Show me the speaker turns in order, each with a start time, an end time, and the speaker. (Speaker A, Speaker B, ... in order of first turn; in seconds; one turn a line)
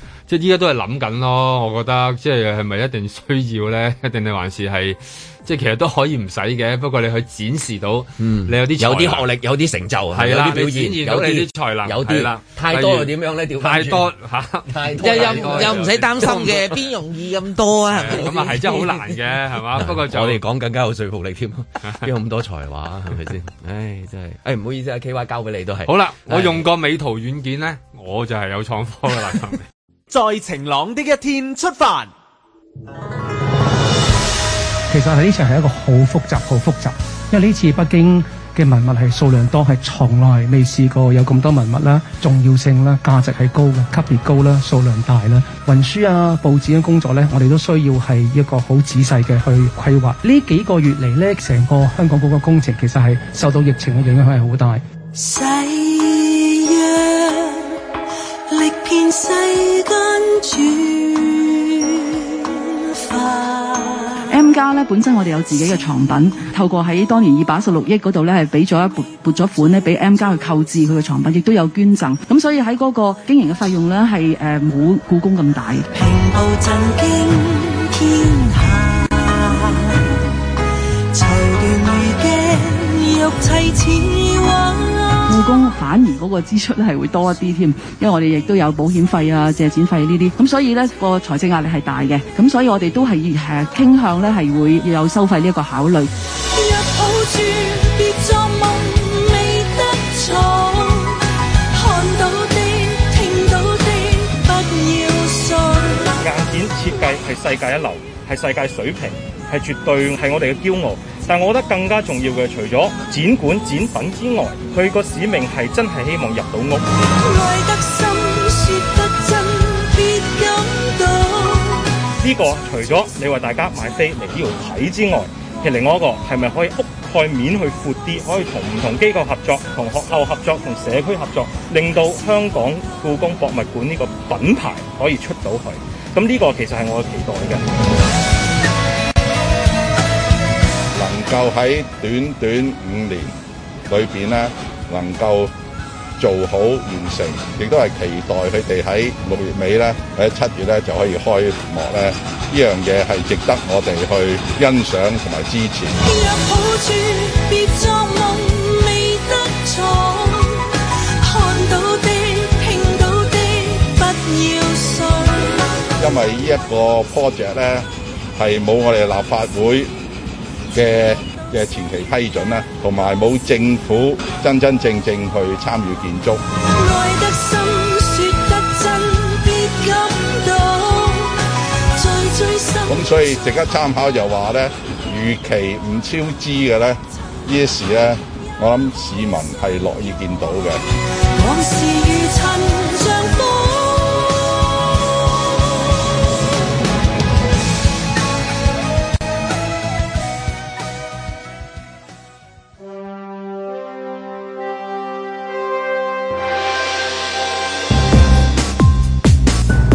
Speaker A: 0.3-9.3
Speaker B: 8.2-14.1
Speaker A: 10.1-16.4
Speaker B: 14.7-16.8
Speaker C: 15.0-19.0
Speaker A: 17.9-20.4
Speaker B: 19.7-26.6
Speaker A: 25.9-29.6
Speaker D: 30.1-32.1
Speaker E: 34.9-54.8
Speaker F: 55.1-57.8
Speaker F: 58.5-64.4
Speaker G: 64.3-75.8
Speaker F: 75.9-80.2
Speaker F: 81.1-85.3
Speaker G: 85.3-96.1
Speaker F: 96.4-106.2
Speaker H: 106.2-116.9
Speaker F: 116.9-122.0
Speaker H: 122.2-137.9
Speaker I: 140.9-143.3
Speaker I: 143.9-145.5
Speaker I: 146.2-156.0
Speaker F: 156.0-165.8
Speaker I: 166.0-169.9
Speaker I: 170.7-176.4
Speaker F: 176.7-183.3
Speaker I: 182.9-190.8
Speaker F: 191.3-194.7